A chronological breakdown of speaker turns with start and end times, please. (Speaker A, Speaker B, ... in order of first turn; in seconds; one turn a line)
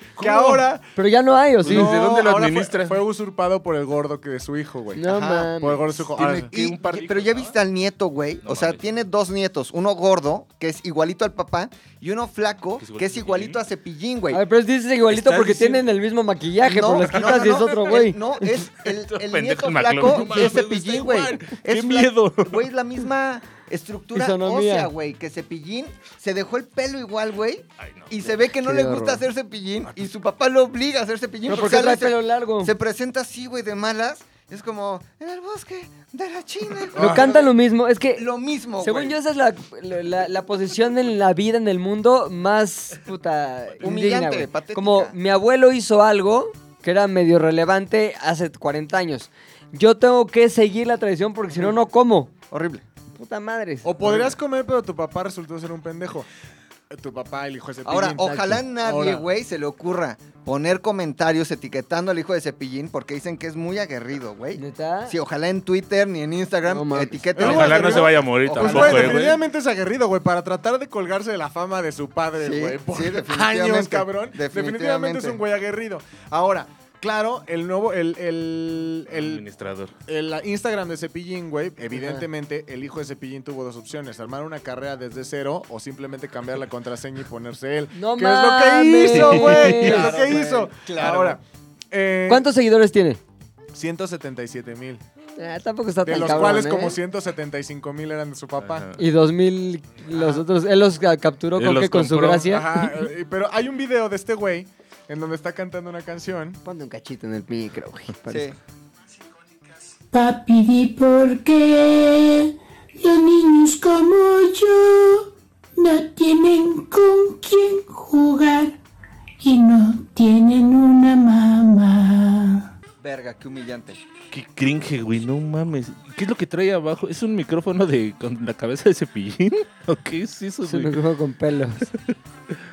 Speaker A: 0.2-0.8
Speaker B: 0.3-0.6
Speaker C: 0.9-1.9
Speaker B: 1.6-3.0
Speaker A: 1.7-5.0
Speaker C: 5.0-5.9
Speaker D: 5.1-5.5
Speaker A: 5.6-6.5
Speaker D: 6.1-14.4
Speaker B: 6.4-7.6
Speaker B: 8.4-8.9
Speaker B: 12.8-13.6
Speaker C: 14.3-18.2
Speaker B: 15.1-15.8
Speaker D: 16.6-37.5
Speaker B: 18.8-22.6
Speaker C: 24.1-24.9
Speaker B: 27.8-28.2
Speaker C: 28.6-29.2
Speaker C: 31.5-32.7
Speaker A: 36.9-37.4
Speaker C: 37.0-38.3
Speaker D: 38.1-39.2
Speaker C: 38.8-52.3
Speaker D: 43.8-45.2
Speaker D: 52.5-52.8
Speaker C: 53.2-54.3
Speaker A: 53.8-56.3
Speaker D: 54.0-54.3
Speaker A: 56.9-59.2
Speaker D: 57.9-69.2
Speaker C: 64.6-65.2
Speaker C: 66.7-67.3
Speaker A: 67.4-79.4
Speaker B: 67.4-69.4
Speaker D: 72.4-75.4
Speaker B: 79.1-79.9
Speaker A: 80.1-92.5
Speaker C: 87.9-90.2
Speaker D: 89.6-91.4
Speaker C: 92.3-93.2
Speaker A: 93.7-95.0
Speaker C: 95.4-97.0
Speaker A: 96.0-98.9
Speaker B: 98.6-99.0
Speaker C: 99.0-102.9
Speaker A: 100.1-100.4
Speaker B: 101.6-102.5
Speaker A: 102.5-106.6
Speaker C: 106.6-108.5
Speaker D: 108.3-108.6
Speaker E: 110.1-118.8
Speaker E: 119.4-122.7
Speaker D: 123.0-124.0
Speaker B: 124.3-131.0
Speaker C: 130.7-131.9